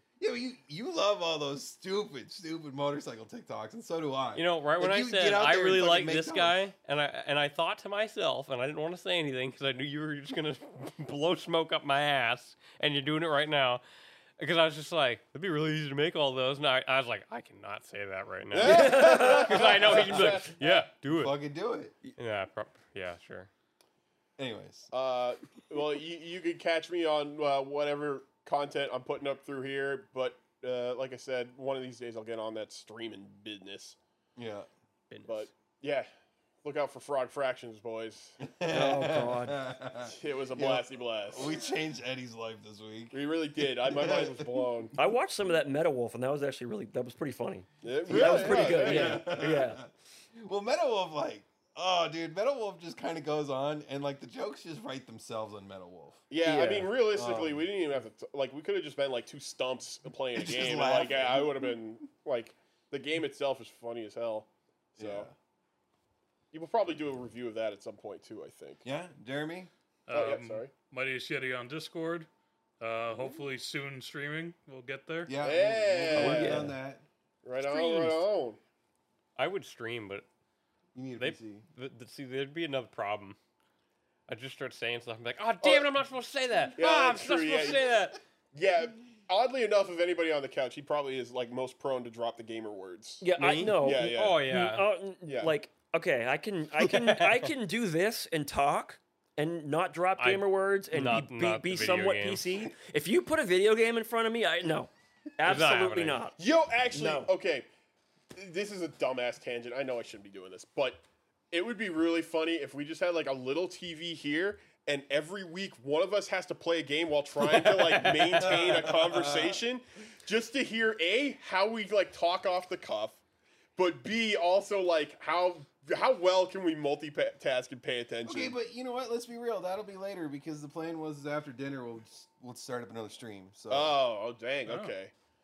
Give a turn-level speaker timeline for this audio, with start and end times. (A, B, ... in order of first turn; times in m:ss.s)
0:00.2-0:06.6 A
0:04.3-0:13.8 B
0:14.4-0:21.4 B
0:18.5-0:20.6 C
0:18.6-0:22.0 A
0:18.6-0:19.6 D
0:22.2-0:23.5 B
0:24.4-0:24.9 A
0:24.9-0:34.0 C
0:34.4-0:34.7 A
0:35.1-0:35.5 B
0:35.2-0:36.1 C
0:36.6-0:38.4 C
0:38.4-0:44.8 A
0:38.7-0:39.6 D
0:40.0-0:41.5 C
0:43.1-0:44.9 C
0:45.0-0:49.8 D
0:47.8-0:49.3 C
0:48.0-0:56.2 A
0:56.3-1:05.3 C
0:56.4-0:56.9 D
0:57.1-0:57.6 A
1:00.4-1:01.8 A
1:05.0-1:05.3 A
1:06.5-1:08.8 C
1:08.8-1:09.7 A
1:10.1-1:12.3 E
1:10.1-1:10.7 C
1:12.8-1:15.4 E
1:15.3-1:17.0 A
1:15.4-1:16.7 C
1:16.1-1:16.7 D
1:17.4-1:18.6 C
1:17.6-1:18.2 B
1:19.4-1:20.3 B
1:20.9-1:21.6 A
1:21.2-1:23.4 B
1:24.3-1:28.2 B
1:25.6-1:25.9 C
1:26.8-1:27.9 C
1:28.5-1:33.2 C
1:33.2-1:46.4 D
1:33.4-1:34.8 B
1:33.8-1:34.4 C
1:35.2-1:35.5 C
1:36.8-1:37.5 B
1:40.2-1:42.6 B
1:45.4-1:46.2 B
1:46.4-1:47.7 C
1:46.9-1:47.3 D
1:48.3-2:03.2 C
1:57.8-1:58.4 B
1:58.4-1:59.6 A
2:03.8-2:08.5 C
2:08.2-2:14.0 A
2:13.7-2:15.1 C
2:14.6-2:14.9 E